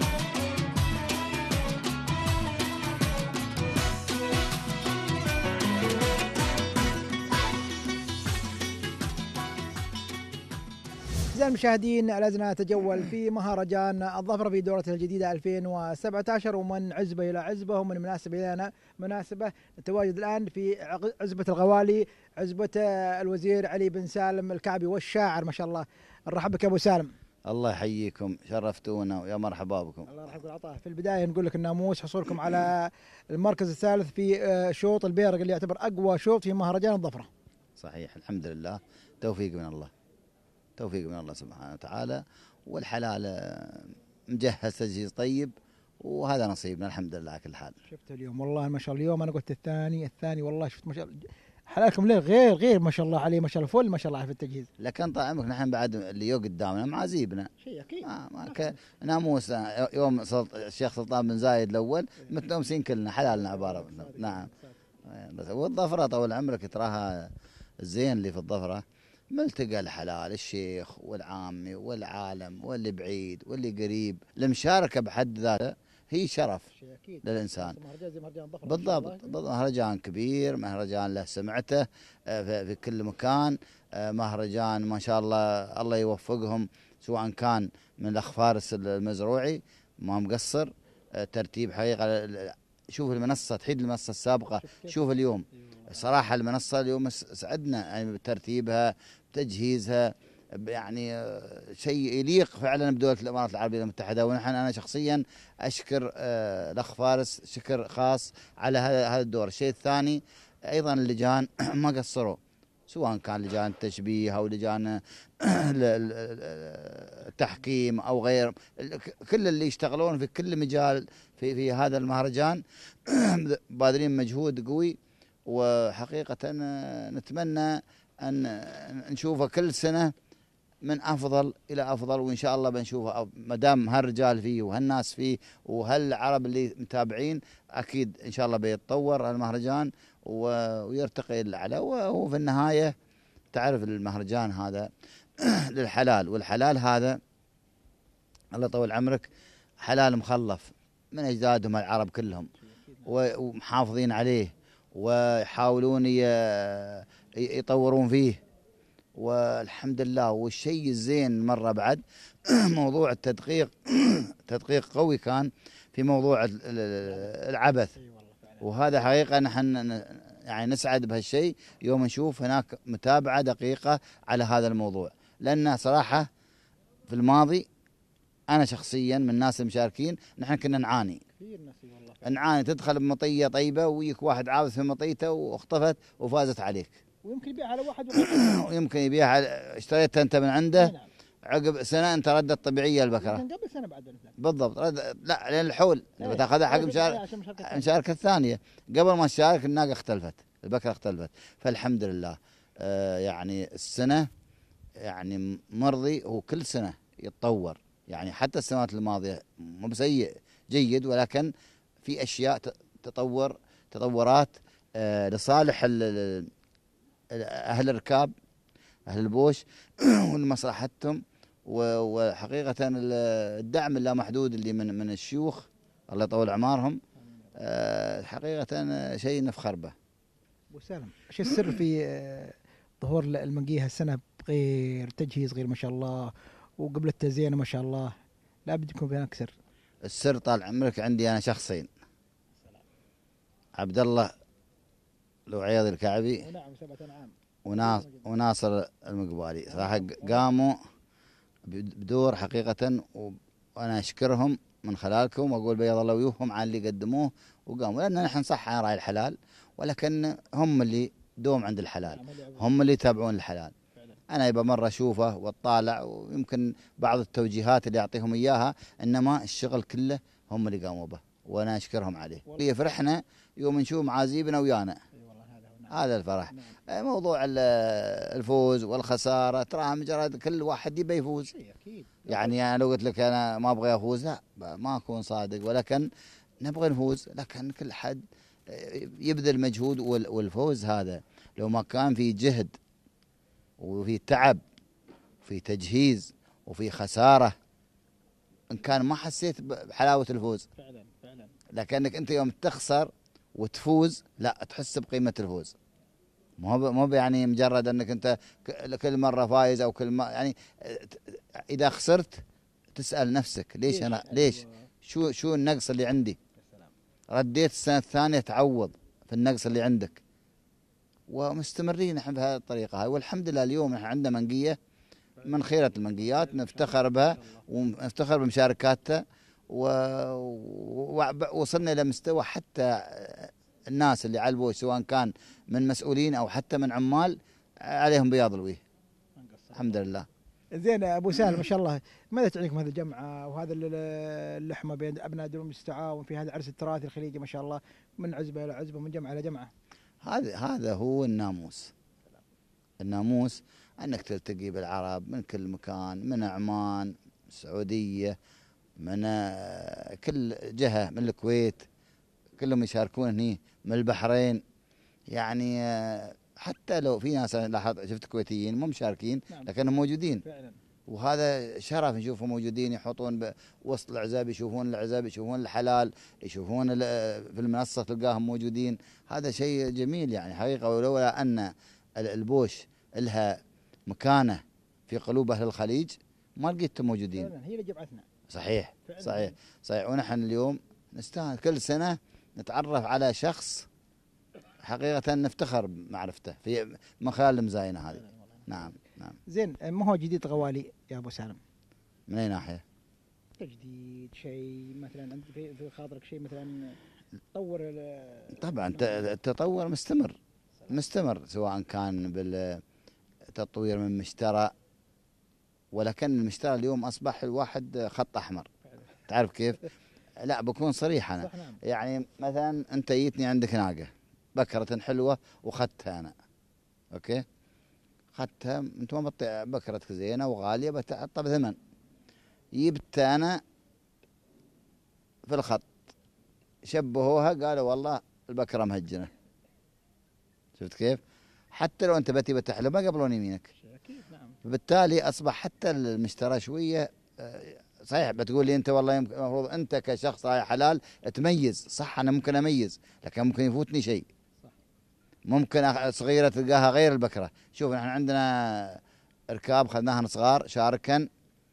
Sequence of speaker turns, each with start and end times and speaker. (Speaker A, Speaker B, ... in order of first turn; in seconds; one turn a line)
Speaker A: 11.3-27.1
Speaker B: 27.5-30.1
Speaker A: 30.1-37.3
Speaker B: 37.8-39.9
Speaker B: 40.8-47.8
Speaker A: 47.9-54.7
Speaker B: 54.8-57.5
Speaker A: 57.6-58.7
Speaker B: 58.0-64.5
Speaker A: 63.4-64.7
Speaker B: 65.1-67.3
Speaker B: 67.8-76.6
Speaker A: 76.8-79.3
Speaker B: 77.2-77.8
Speaker B: 78.6-125.0
Speaker A: 94.6-94.9
Speaker B: 125.5-130.1
Speaker B: 130.8-142.9
Speaker B: 143.5-144.9
Speaker B: 145.4-147.2
Speaker B: 148.5-149.3
Speaker B: 149.8-152.5
Speaker A: 152.7-153.0
Speaker B: 153.1-158.4
Speaker B: 159.2-167.9
Speaker A: 168.0-168.6
Speaker B: 168.6-176.3
Speaker B: 177.1-177.7
Speaker B: 178.5-181.2
Speaker A: 181.4-182.2
Speaker B: 182.2-187.0
Speaker A: 187.2-188.4
Speaker B: 188.1-190.9
Speaker A: 190.8-191.1
Speaker B: 191.5-193.4
Speaker A: 193.2-194.3
Speaker B: 194.4-204.3
Speaker A: 196.2-197.9
Speaker B: 205.0-211.5
Speaker B: 212.0-216.5
Speaker B: 217.3-218.3
Speaker B: 219.1-227.0
Speaker B: 227.6-229.9
Speaker A: 230.7-238.1
Speaker A: 238.7-239.5
Speaker B: 240.1-241.9
Speaker B: 243.8-244.3
Speaker B: 245.5-246.4
Speaker A: 246.4-248.3
Speaker B: 247.7-250.8
Speaker A: 249.8-250.5
Speaker B: 251.7-263.7
Speaker A: 262.1-262.6
Speaker B: 264.3-275.0
Speaker A: 275.2-275.9
Speaker B: 275.9-281.5
Speaker A: 281.5-282.5
Speaker B: 282.3-286.1
Speaker B: 286.6-292.7
Speaker B: 293.8-294.6
Speaker B: 295.4-297.5
Speaker B: 298.7-300.6
Speaker A: 300.8-301.5
Speaker B: 301.7-305.7
Speaker B: 306.6-312.4
Speaker B: 312.9-316.4
Speaker A: 313.9-314.7
Speaker A: 316.6-316.9
Speaker B: 317.3-320.2
Speaker B: 321.3-324.8
Speaker B: 325.4-338.8
Speaker A: 326.4-327.6
Speaker A: 339.4-339.9
Speaker B: 339.7-340.3
Speaker A: 340.8-349.7
Speaker B: 350.2-351.9
Speaker B: 353.0-358.4
Speaker B: 359.0-361.8
Speaker B: 362.6-364.6
Speaker B: 365.3-370.4
Speaker A: 370.4-370.8
Speaker B: 371.1-387.5
Speaker A: 387.4-388.2
Speaker B: 388.5-393.9
Speaker A: 389.1-389.5
Speaker B: 394.8-399.4
Speaker A: 398.2-398.6
Speaker A: 399.5-401.6
Speaker B: 402.3-402.8
Speaker A: 403.6-407.0
Speaker A: 407.5-408.6
Speaker B: 408.5-410.4
Speaker B: 410.9-412.8
Speaker B: 413.5-414.7
Speaker B: 415.9-418.7
Speaker B: 419.3-419.8
Speaker B: 420.4-426.3
Speaker A: 421.4-421.8
Speaker B: 427.1-427.4
Speaker B: 428.3-431.8
Speaker B: 432.8-433.6
Speaker B: 435.5-435.9
Speaker B: 436.9-439.3
Speaker B: 440.8-441.2
Speaker B: 441.7-443.7
Speaker A: 443.8-444.6
Speaker B: 444.6-454.2
Speaker B: 455.5-459.0
Speaker B: 459.5-461.3